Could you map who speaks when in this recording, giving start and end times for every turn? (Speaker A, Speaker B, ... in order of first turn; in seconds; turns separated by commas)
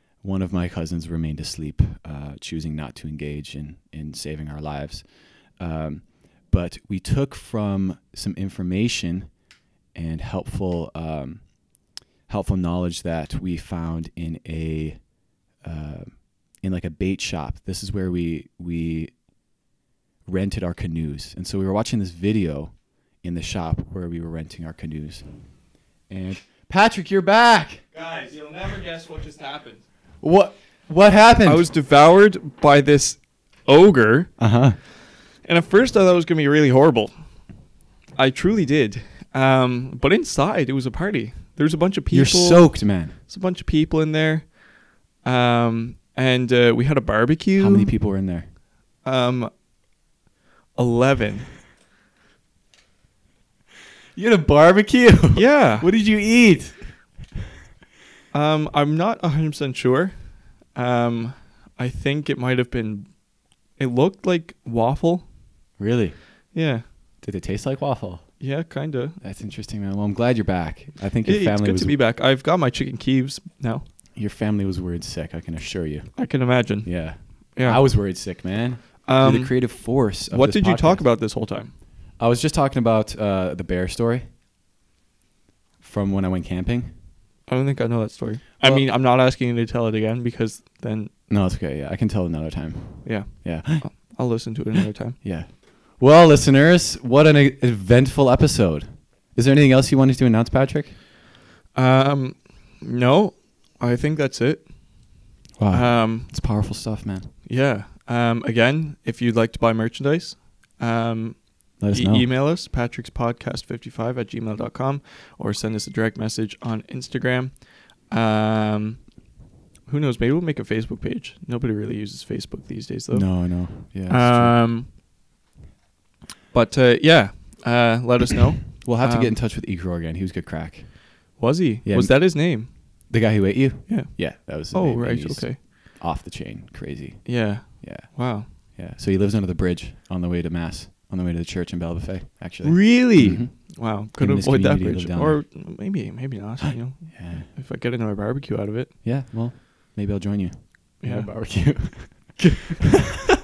Speaker A: 0.2-9.3, Speaker A: 9.9-15.0, Speaker A: 15.6-19.1, Speaker A: 20.2-25.3, Speaker A: 26.1-27.8, Speaker B: 27.9-29.8, Speaker A: 30.2-31.7, Speaker B: 31.4-34.3, Speaker A: 34.4-34.8, Speaker B: 35.4-37.2, Speaker B: 38.1-44.6, Speaker A: 42.1-43.2, Speaker B: 45.1-48.0, Speaker A: 47.6-48.5, Speaker B: 49.0-49.5, Speaker B: 50.7-51.5, Speaker A: 54.1-56.9, Speaker B: 55.3-55.9, Speaker B: 58.3-63.1, Speaker B: 63.7-65.3, Speaker A: 65.8-66.2, Speaker B: 66.5-66.8, Speaker A: 67.2-68.2, Speaker B: 68.4-69.2, Speaker A: 69.2-72.0, Speaker B: 71.2-73.8, Speaker A: 74.2-76.3, Speaker B: 76.2-77.8, Speaker A: 76.8-81.1, Speaker B: 79.0-81.7, Speaker A: 82.2-84.2, Speaker A: 85.8-86.9, Speaker B: 87.5-91.1, Speaker A: 91.3-93.9, Speaker B: 93.0-95.2, Speaker A: 95.2-101.0, Speaker B: 101.7-106.3, Speaker A: 105.6-107.3, Speaker B: 107.4-119.3, Speaker A: 111.8-112.3, Speaker B: 119.8-124.9, Speaker A: 123.1-124.7, Speaker B: 126.5-129.4, Speaker A: 128.8-131.1, Speaker B: 131.4-133.1, Speaker A: 131.8-145.4, Speaker B: 133.9-135.6, Speaker B: 137.2-138.5, Speaker B: 142.6-148.9, Speaker A: 146.7-147.5, Speaker A: 149.0-152.4, Speaker B: 151.0-151.4